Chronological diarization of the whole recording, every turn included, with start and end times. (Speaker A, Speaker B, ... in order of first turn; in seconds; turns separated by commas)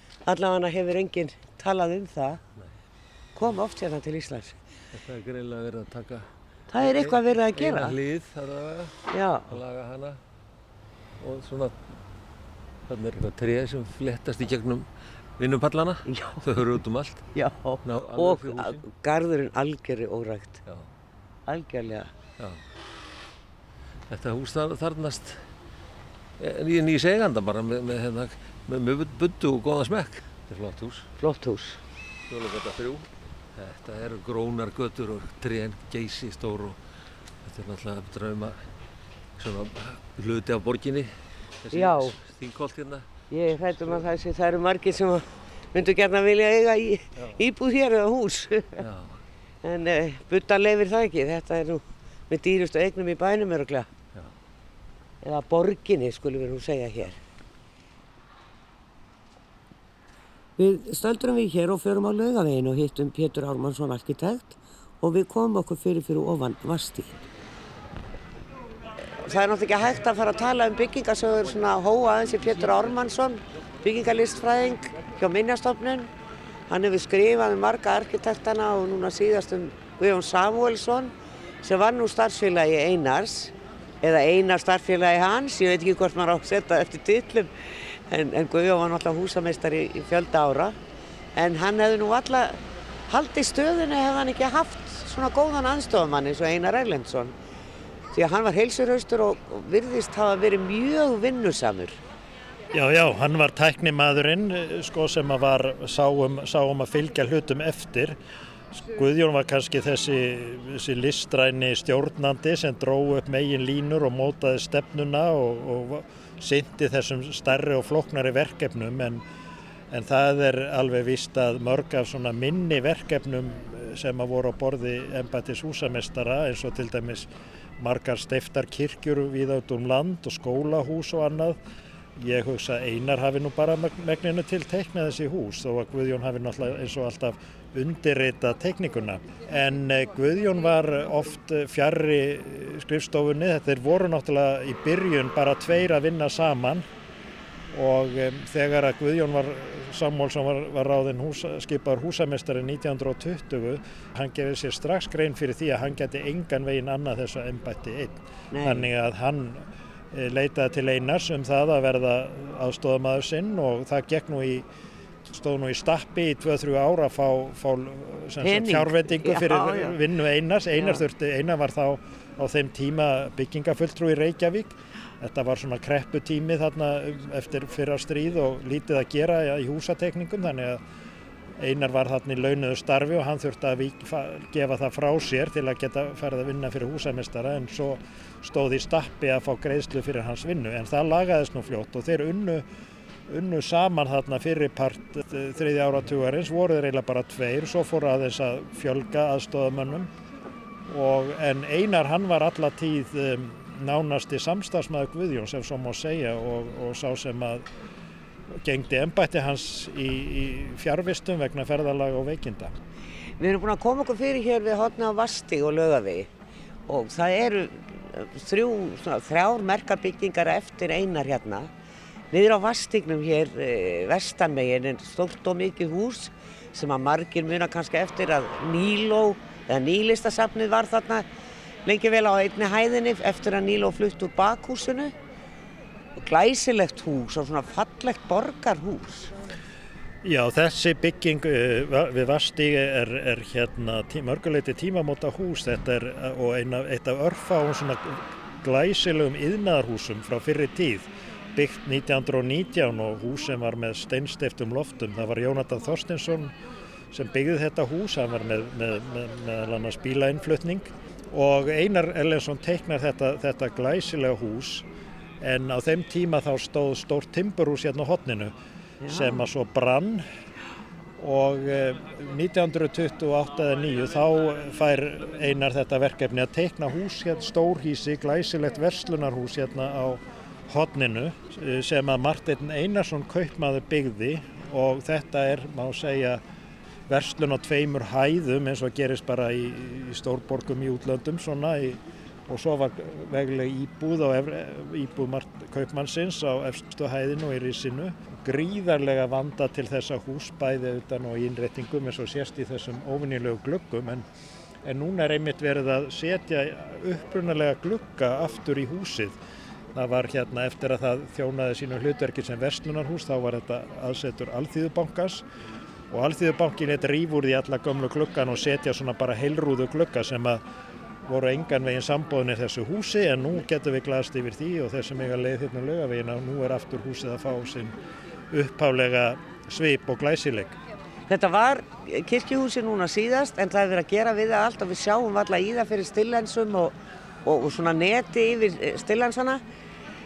Speaker A: 0.2-2.4, Speaker A: 3.4-4.6, Speaker B: 4.9-6.3, Speaker A: 6.7-8.0, Speaker B: 6.8-10.2, Speaker A: 9.1-9.6, Speaker B: 11.2-11.8, Speaker B: 12.9-14.9, Speaker B: 15.4-17.3, Speaker A: 16.1-16.6, Speaker A: 17.4-20.6, Speaker B: 17.9-18.8, Speaker A: 21.5-22.1, Speaker B: 24.1-25.5, Speaker B: 26.4-31.1, Speaker A: 31.2-31.8, Speaker B: 32.3-36.8, Speaker B: 37.4-38.6, Speaker B: 39.4-43.1, Speaker A: 41.7-42.2, Speaker A: 43.3-48.9, Speaker B: 43.6-44.0, Speaker B: 48.8-49.2, Speaker A: 49.6-53.9, Speaker A: 55.2-57.2, Speaker A: 60.6-67.2, Speaker A: 69.1-76.1, Speaker A: 76.7-90.8, Speaker A: 91.3-97.3, Speaker A: 98.1-102.0, Speaker C: 102.7-108.2, Speaker C: 108.7-119.2, Speaker C: 119.9-131.6, Speaker C: 132.2-146.8, Speaker C: 147.7-164.6, Speaker A: 158.5-158.9, Speaker C: 165.2-180.8, Speaker A: 168.4-170.0, Speaker A: 170.8-171.0, Speaker C: 181.6-192.6, Speaker C: 193.3-200.1, Speaker C: 200.9-207.6, Speaker C: 208.5-212.7, Speaker A: 213.4-216.3, Speaker A: 216.9-221.7, Speaker A: 222.3-231.2, Speaker A: 231.8-235.1, Speaker A: 236.2-239.3, Speaker C: 240.2-256.5, Speaker C: 257.1-264.9, Speaker C: 265.4-268.5, Speaker A: 269.0-269.4, Speaker C: 269.1-270.2, Speaker C: 271.2-286.4, Speaker C: 287.1-304.2, Speaker C: 304.8-309.4, Speaker C: 309.9-315.4, Speaker C: 316.1-320.6, Speaker C: 321.2-327.9, Speaker C: 328.5-330.8, Speaker A: 331.3-339.6